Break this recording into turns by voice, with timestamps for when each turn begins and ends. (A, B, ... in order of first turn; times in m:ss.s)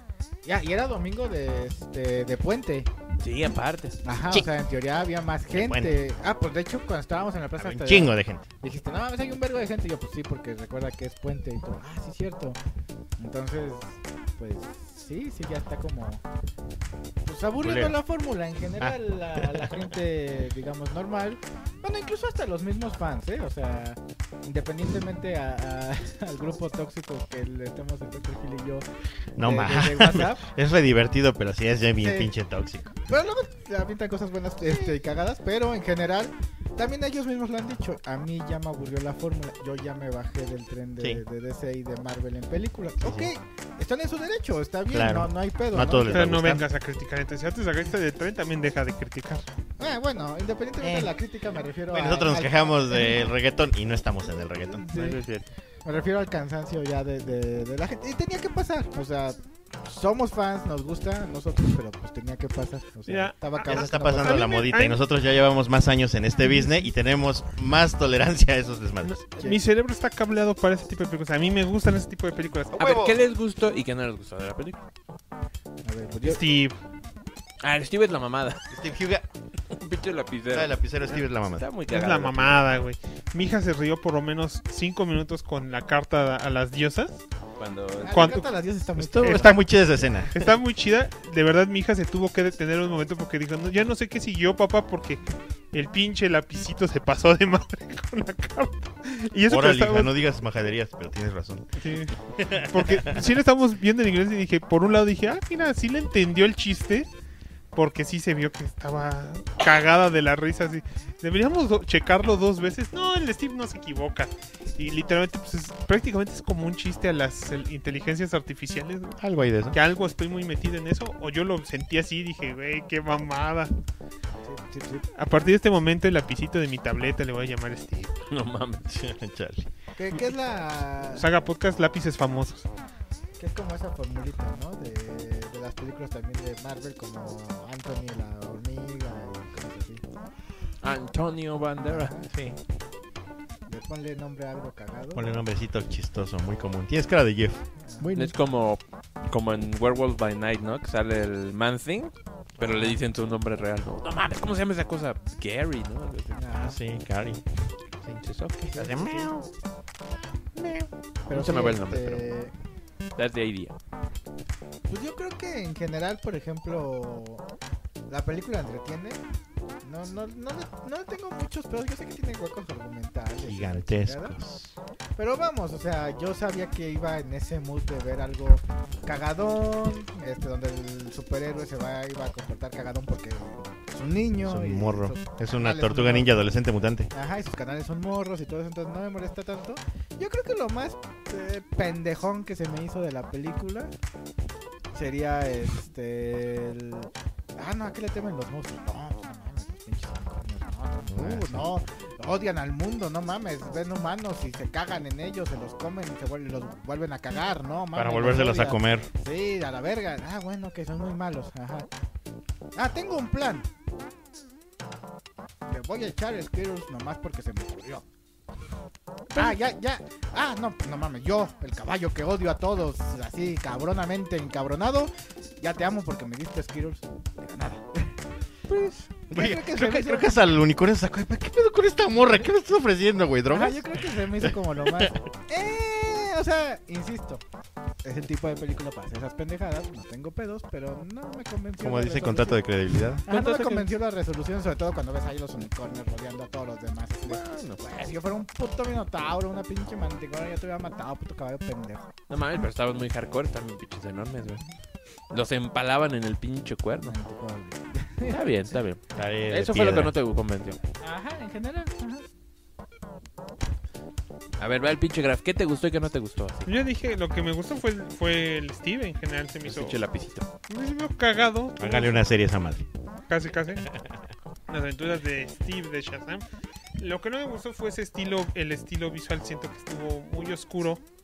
0:00.4-0:02.9 A
0:03.2-0:04.0 B
0:04.0-0:12.6 A
0:05.5-0:06.0 C
0:07.6-0:08.5 C
0:13.2-0:16.2 A
0:17.2-0:28.8 A
0:17.6-0:18.0 C
0:18.8-0:19.8 C
0:29.4-0:33.0 C
0:29.4-0:30.4 A
0:32.0-0:32.3 A
0:33.0-0:46.3 A
0:34.6-0:35.0 C
0:43.0-0:43.3 C
0:44.9-0:46.6 C
0:46.0-0:49.5 D
0:49.8-0:53.2 A
0:50.8-0:51.1 C
0:51.9-0:54.9 C
0:54.7-0:55.2 A
0:54.9-0:55.5 B
0:55.8-1:04.6 A
1:03.1-1:05.0 D
1:03.6-1:09.2 C
1:06.4-1:06.9 A
1:09.0-1:12.9 D
1:12.7-1:13.2 C
1:12.8-1:14.8 B
1:15.8-1:16.4 A
1:16.2-1:16.8 D
1:17.6-1:18.7 B
1:18.7-1:19.3 C
1:19.7-1:20.8 B
1:20.5-1:21.7 C
1:21.6-1:22.6 B
1:21.9-1:27.2 D
1:27.6-1:28.4 B
1:28.0-1:29.6 A
1:28.1-1:28.5 D
1:29.0-1:30.5 C
1:29.2-1:29.6 D
1:30.3-1:40.1 D
1:39.5-1:43.2 C
1:41.8-1:47.1 D
1:47.7-1:59.2 D
1:59.2-1:59.8 C
1:59.7-2:03.7 D
2:04.4-2:05.1 A
2:05.2-2:08.3 D
2:08.3-2:08.9 B
2:08.9-2:09.7 C
2:10.0-2:11.3 A
2:11.2-2:12.7 D
2:13.4-2:20.0 A
2:20.8-2:22.1 B
2:21.8-2:22.3 A
2:22.3-2:22.6 C
2:23.7-2:25.3 A
2:25.1-2:28.3 C
2:27.8-2:28.1 A
2:28.1-2:36.5 B
2:36.4-2:36.8 A
2:36.6-2:37.4 C
2:38.1-2:38.8 B
2:38.7-2:39.3 A
2:38.7-2:39.5 C
2:40.6-2:40.9 C
2:41.3-2:42.5 A
2:41.3-2:42.2 B
2:43.2-2:43.7 B
2:44.9-2:47.4 A
2:48.1-2:49.2 A
2:49.8-2:54.4 A
2:53.4-2:54.8 C
2:55.2-3:06.5 A
3:04.4-3:07.1 C
3:07.1-3:13.9 A
3:14.9-3:31.9 A
3:21.1-3:21.6 C
3:27.9-3:29.1 C
3:32.8-3:33.7 A
3:35.6-3:38.0 A
3:39.3-3:48.2 A
3:48.7-3:49.1 B
3:49.3-3:50.4 A
3:49.3-3:55.1 C
3:53.5-3:57.4 A
3:58.0-4:02.6 A
4:01.8-4:03.2 C
4:03.2-4:12.1 A
4:03.3-4:03.9 B
4:07.3-4:07.8 B
4:12.3-4:14.6 B
4:15.3-4:17.2 B
4:17.0-4:18.4 A
4:18.3-4:20.8 B
4:19.2-4:20.1 C
4:21.0-4:22.3 A
4:24.6-4:26.7 B
4:26.7-4:30.0 D
4:29.7-4:30.5 B
4:30.7-4:32.3 D
4:31.8-4:32.9 C
4:33.3-4:33.9 D
4:34.7-4:36.4 D
4:37.0-4:41.0 D